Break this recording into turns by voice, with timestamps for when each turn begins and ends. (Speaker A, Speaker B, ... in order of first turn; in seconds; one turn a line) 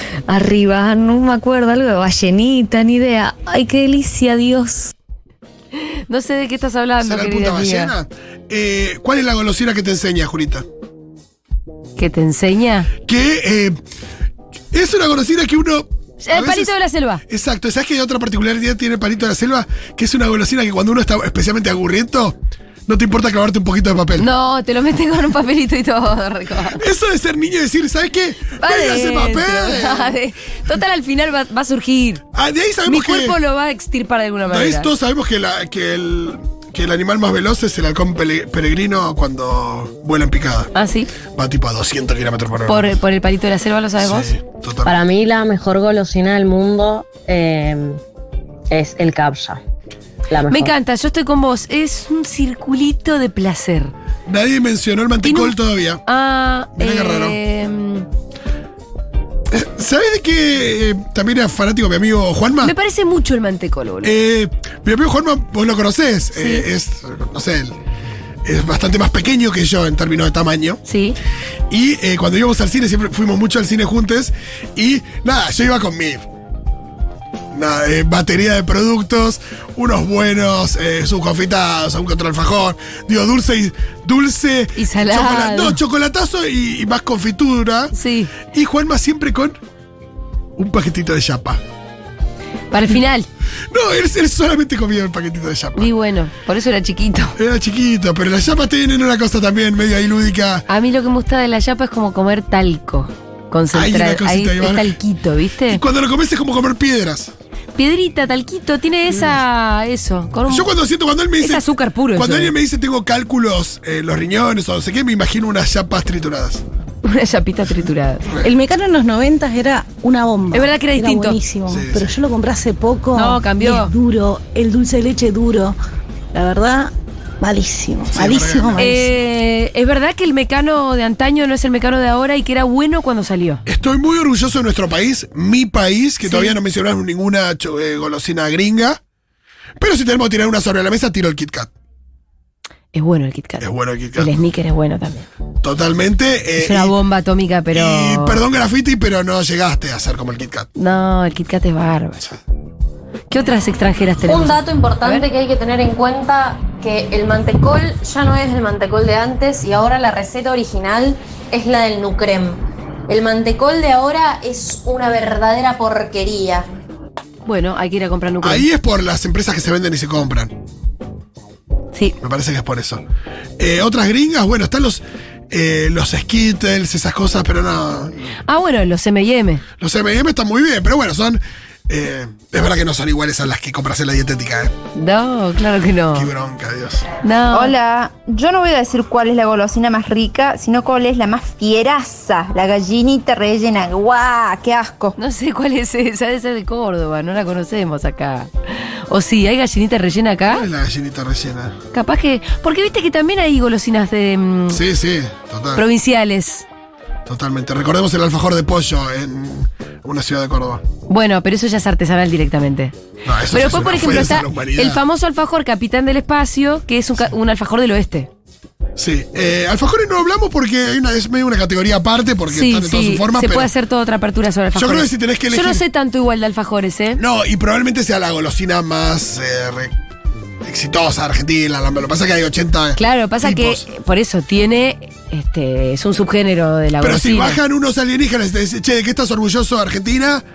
Speaker A: 0.3-4.9
Speaker B: 5.9-7.9
Speaker C: 7.0-10.7
Speaker B: 12.0-12.9
Speaker C: 13.1-13.8
Speaker C: 14.7-16.7
Speaker B: 16.2-17.2
Speaker C: 17.3-24.3
Speaker B: 24.2-26.8
Speaker C: 26.7-30.2
Speaker B: 28.6-32.2
Speaker C: 32.3-33.4
Speaker B: 32.9-34.9
Speaker C: 34.5-40.7
Speaker B: 40.8-41.1
Speaker C: 41.3-43.0
Speaker B: 42.7-44.3
Speaker C: 44.0-45.0
Speaker D: 44.9-48.0
Speaker D: 48.7-49.6
Speaker D: 50.3-50.7
Speaker B: 50.5-53.9
Speaker C: 54.3-56.0
Speaker B: 55.2-55.5
Speaker B: 56.1-58.1
Speaker C: 56.8-57.4
Speaker C: 59.5-62.7
Speaker B: 62.6-64.1
Speaker C: 64.0-67.8
Speaker B: 66.3-66.7
Speaker C: 68.4-70.8
Speaker B: 70.9-71.2
Speaker C: 71.7-76.3
Speaker C: 77.5-87.9
Speaker B: 84.8-85.8
Speaker B: 87.9-88.3
Speaker C: 88.5-89.6
Speaker C: 90.6-91.6
Speaker B: 92.7-93.3
Speaker C: 93.7-95.9
Speaker B: 95.8-97.4
Speaker C: 97.4-100.7
Speaker B: 100.7-105.8
Speaker C: 103.7-105.0
Speaker C: 105.7-107.3
Speaker B: 107.8-110.7
Speaker C: 110.5-116.6
Speaker B: 111.4-112.5
Speaker B: 117.0-118.3
Speaker E: 118.3-125.8
Speaker B: 120.5-121.4
Speaker C: 121.7-122.1
Speaker B: 123.2-123.9
Speaker E: 126.3-129.1
Speaker C: 128.1-129.0
Speaker B: 128.8-133.6
Speaker C: 133.7-139.0
Speaker B: 136.2-136.6
Speaker C: 139.8-141.7
Speaker B: 142.9-145.3
Speaker C: 143.6-144.3
Speaker C: 145.6-146.9
Speaker B: 146.6-148.4
Speaker C: 147.7-150.7
Speaker B: 150.8-152.3
Speaker B: 153.3-155.3
Speaker D: 154.3-166.7
Speaker B: 167.4-168.7
Speaker C: 168.4-170.6
Speaker C: 172.2-173.0
Speaker C: 173.6-178.3
Speaker B: 178.5-179.6
Speaker C: 179.8-184.7
Speaker B: 184.9-186.3
Speaker C: 186.1-187.1
Speaker B: 187.2-187.8
Speaker F: 187.6-195.1
Speaker B: 195.2-200.7
Speaker C: 200.5-201.8
Speaker B: 201.9-204.8
Speaker C: 204.7-205.8
Speaker B: 205.8-206.7
Speaker C: 207.3-210.8
Speaker B: 211.1-212.9
Speaker C: 213.2-215.0
Speaker B: 213.5-218.3
Speaker C: 219.0-223.7
Speaker B: 222.5-227.2
Speaker C: 224.8-225.8
Speaker C: 227.2-229.9
Speaker C: 230.6-233.8
Speaker B: 233.0-237.6
Speaker C: 237.0-240.5